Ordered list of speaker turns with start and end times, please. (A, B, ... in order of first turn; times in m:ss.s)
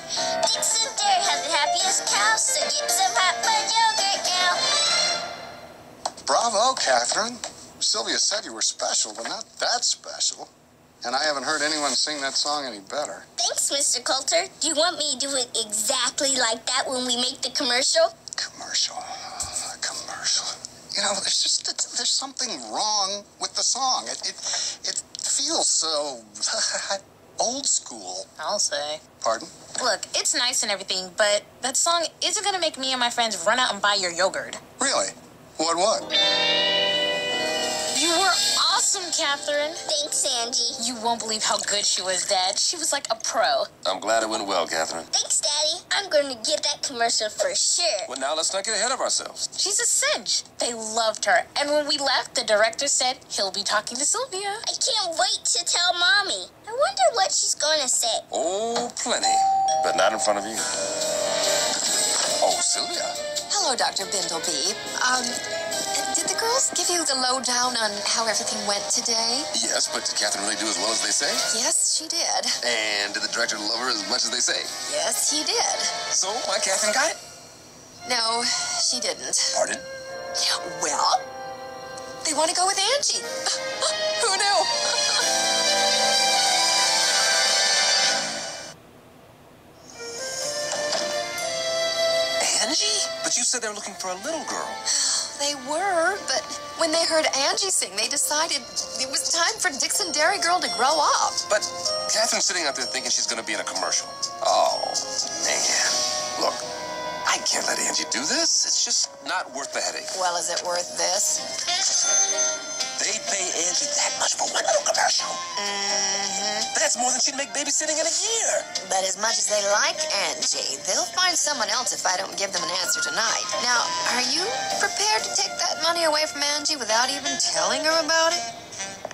0:00.4-0:04.6 A
0:06.3-0:10.5 B
0:11.0-0:13.2 B
0:13.4-0:18.1 A
0:18.4-0:28.3 B
0:28.4-0:29.0 C
0:29.2-0:29.5 B
0:29.8-0:34.6 C
0:34.8-0:36.1 B
0:37.9-0:39.8 C
0:39.9-0:40.8 A
0:40.8-0:43.7 C
0:43.8-0:45.1 D
0:45.1-0:48.1 A
0:48.1-0:49.4 D
0:49.6-0:54.6 C
0:54.6-0:58.2 A
0:58.3-1:00.7 D
1:02.4-1:03.2 D
1:03.5-1:05.4 E
1:05.9-1:09.5 E
1:09.5-1:11.4 D
1:11.5-1:12.6 E
1:12.6-1:14.7 D
1:14.8-1:15.9 E
1:16.1-1:17.2 D
1:18.0-1:19.6 E
1:19.5-1:19.8 D
1:20.4-1:21.2 E
1:22.2-1:25.2 E
1:32.4-1:34.8 D
1:34.9-1:41.4 E
1:41.5-1:46.6 D
1:47.2-1:50.1 D
1:50.1-1:51.4 E
1:53.0-1:55.4 D
1:55.6-1:56.7 E
1:56.7-1:58.7 D
1:58.8-2:08.4 E